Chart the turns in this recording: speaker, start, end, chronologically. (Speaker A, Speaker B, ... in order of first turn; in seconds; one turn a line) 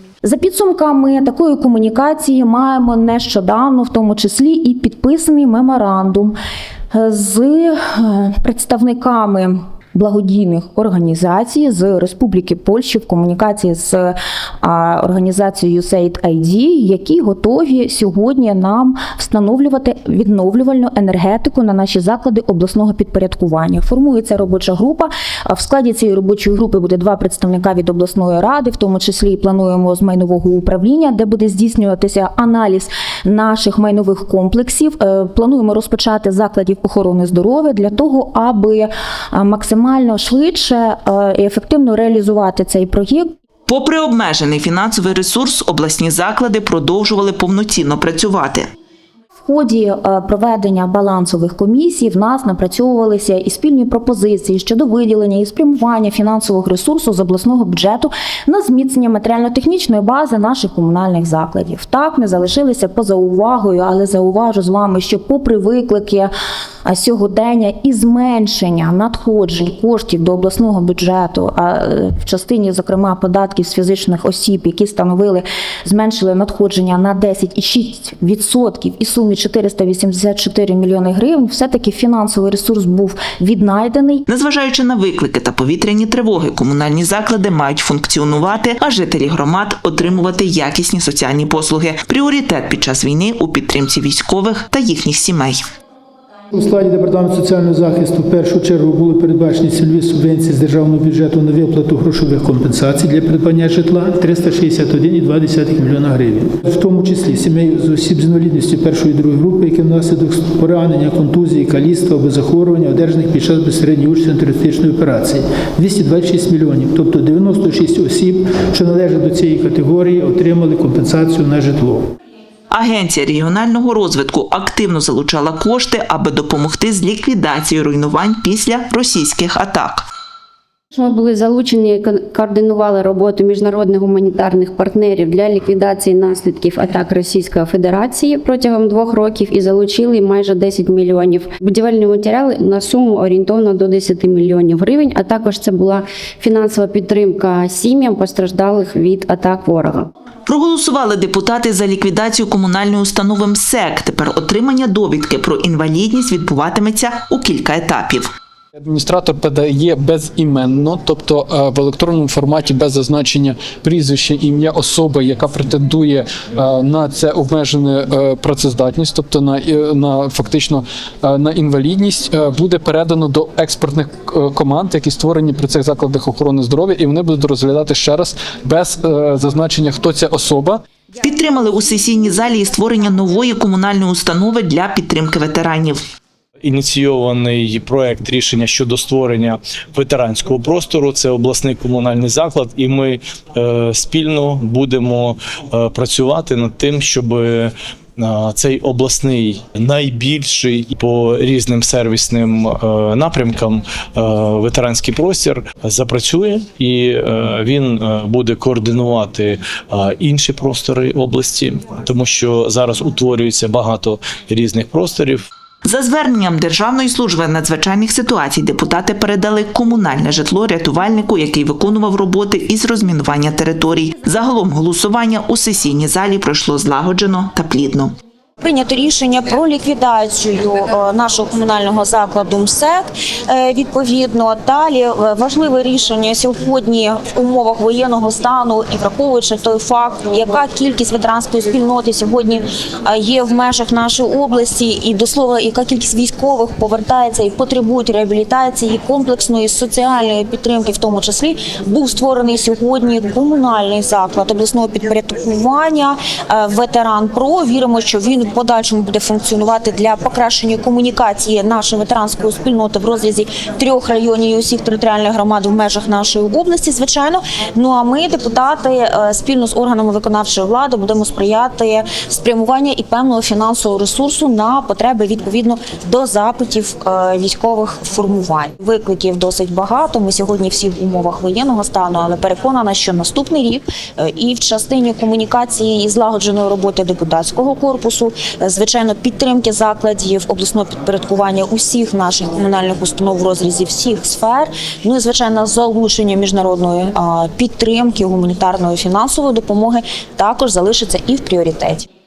Speaker A: 0.2-6.3
Speaker A: 6.9-43.2
Speaker B: 43.7-48.7
Speaker A: 49.4-66.3
Speaker A: 66.8-84.2
Speaker B: 84.3-95.6
Speaker C: 96.5-122.1
Speaker B: 122.7-130.0
Speaker D: 130.9-150.1
Speaker B: 150.5-158.3
Speaker E: 158.8-180.8
Speaker B: 181.2-186.0
Speaker F: 186.6-215.4
Speaker B: 215.8-228.1
Speaker G: 228.6-302.1